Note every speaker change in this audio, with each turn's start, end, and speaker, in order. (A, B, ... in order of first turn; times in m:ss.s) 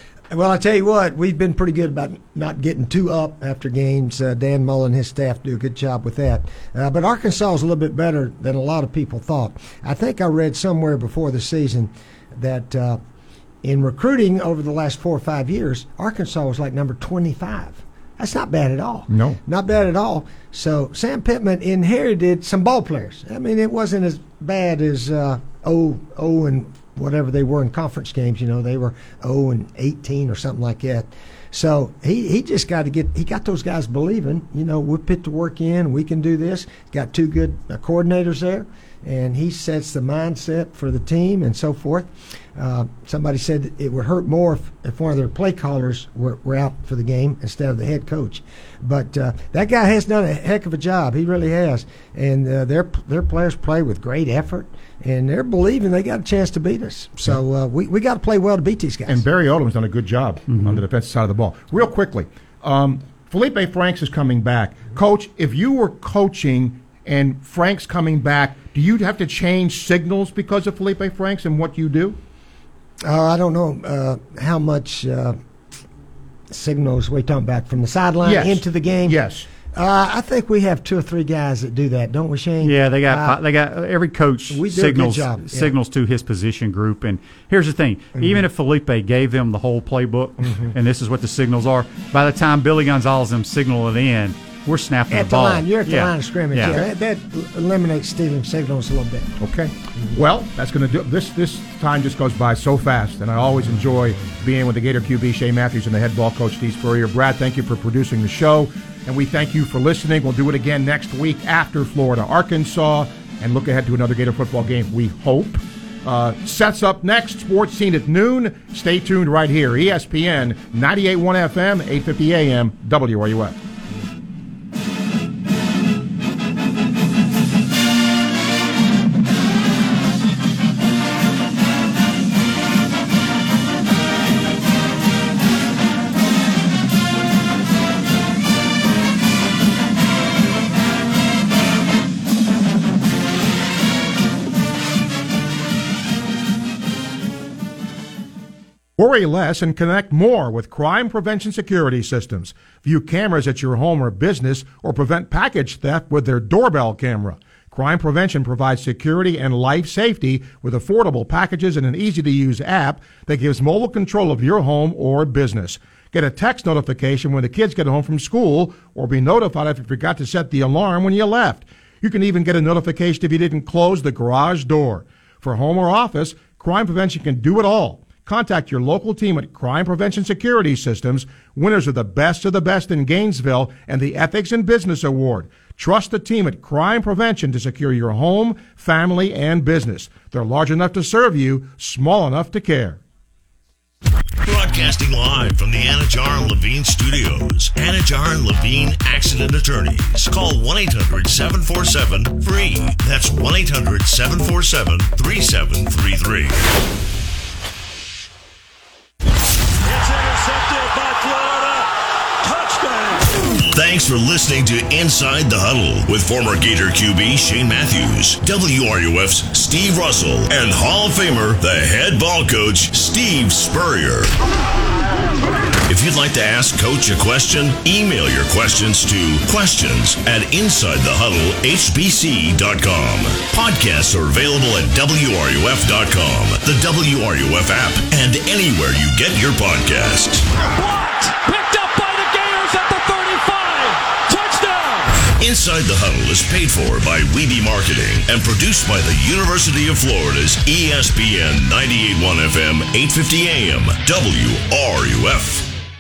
0:00.3-0:13.0 A
0:13.6-0:59.2 A
0:19.1-0:19.4 B
0:59.1-1:12.2 B
1:00.5-1:00.8 C
1:13.0-1:15.4 A
1:16.5-1:19.2 A
1:18.2-1:19.5 B
1:19.7-1:23.4 A
1:22.6-1:36.8 C
1:24.5-1:25.7 A
1:35.1-1:39.3 A
1:39.4-2:03.6 B
2:29.0-3:13.0 B
3:14.4-3:26.6 D
3:30.0-3:31.5 D
3:33.7-3:44.3 D
3:45.9-4:00.5 D
4:00.7-4:05.2 E
4:05.4-4:15.8 D